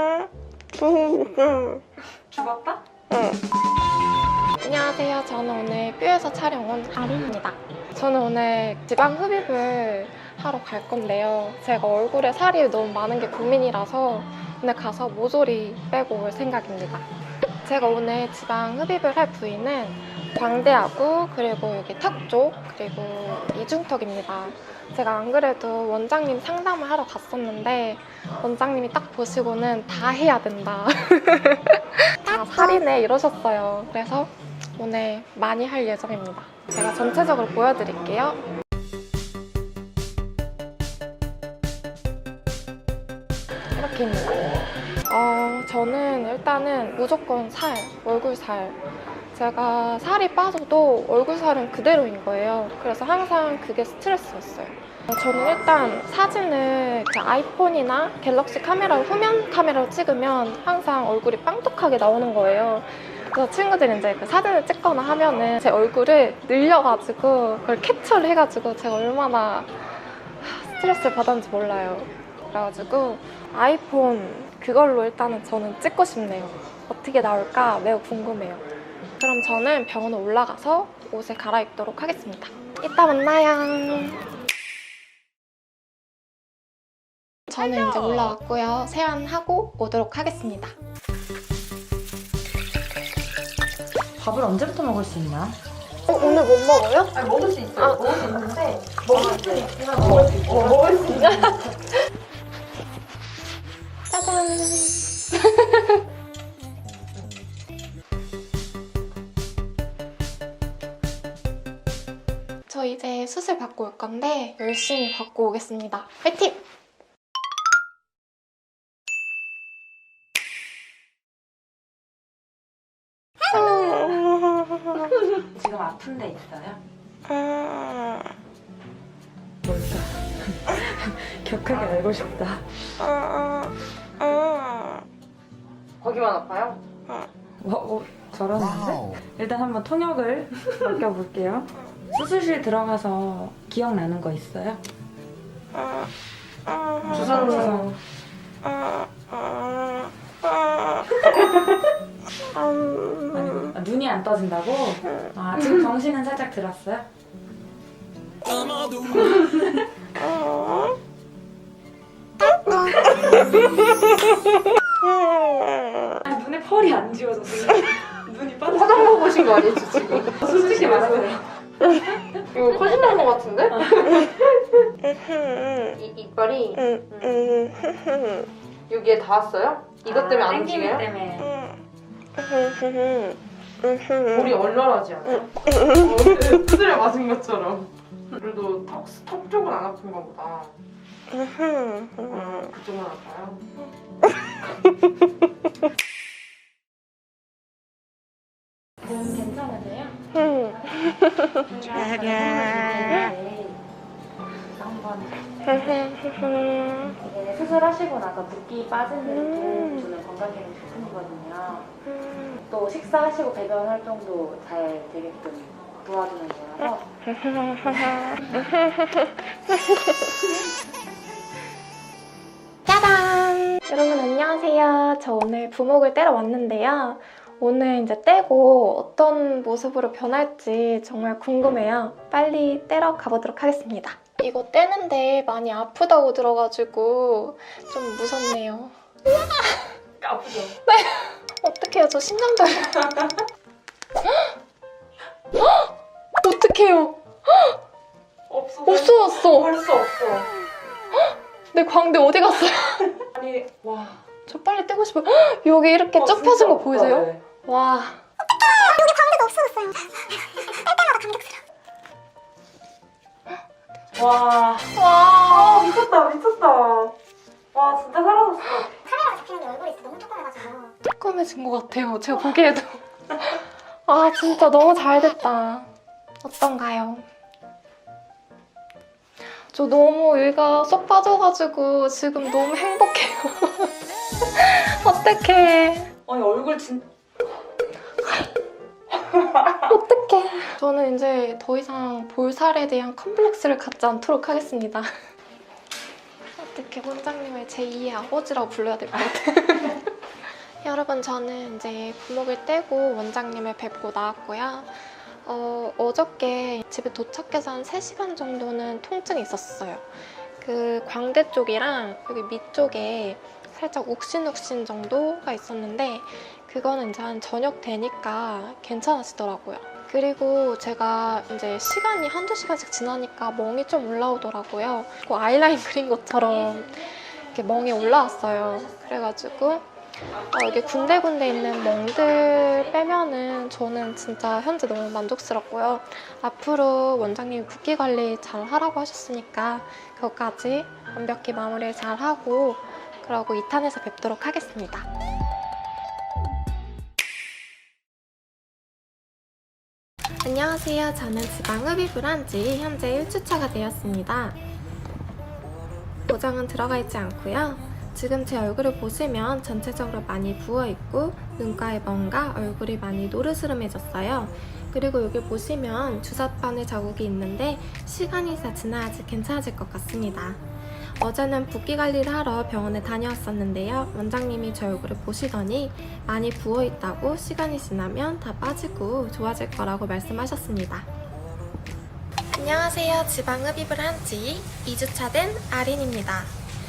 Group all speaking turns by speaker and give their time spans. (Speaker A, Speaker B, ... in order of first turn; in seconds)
Speaker A: 0.8-1.6, 2.3-2.8, 94.2-95.6, 99.1-101.2, 125.5-126.8, 129.6-132.6, 137.6-144.8, 147.1-147.9, 153.3-157.1, 158.6-159.8, 166.2-169.4, 170.4-171.5, 180.1-181.6, 199.0-200.2, 200.7-203.8, 204.7-206.0, 207.2-211.9, 212.6-217.1, 240.2-240.7, 248.5-250.5, 253.3-254.2, 256.2-257.4, 264.1-264.9, 265.5-267.1, 267.7-268.9, 286.3-287.1, 327.8-329.6
Speaker B: 4.6-17.1, 17.6-38.4, 43.8-48.8, 49.3-78.7, 79.2-84.2, 87.5-90.7, 96.1-97.1, 101.2-101.7, 104.1-106.0, 112.7-116.6, 123.5-124.1, 206.0-207.1, 209.4-210.1, 212.2-212.6, 217.3-220.6, 222.9-239.0, 240.9-243.3, 245.6-245.8, 246.4-247.8, 248.8-249.8, 251.7-253.2, 254.5-258.2, 264.9-265.9, 271.0-275.9, 276.4-277.3, 279.7-286.1, 289.5-295.1, 296.6-300.0, 300.8-310.1, 310.6-345.1, 350.4-354.6, 356.3-370.6, 371.2-381.1, 382.5-386.6
Speaker C: 96.1-96.4, 97.1-101.6, 131.7-132.0, 136.0-136.8, 147.1-147.9, 168.7-171.4, 172.5-174.9, 175.8-178.0, 178.9-181.1, 184.2-190.8, 192.1-193.6
Speaker D: 259.1-260.3, 260.9-261.3, 269.9-270.4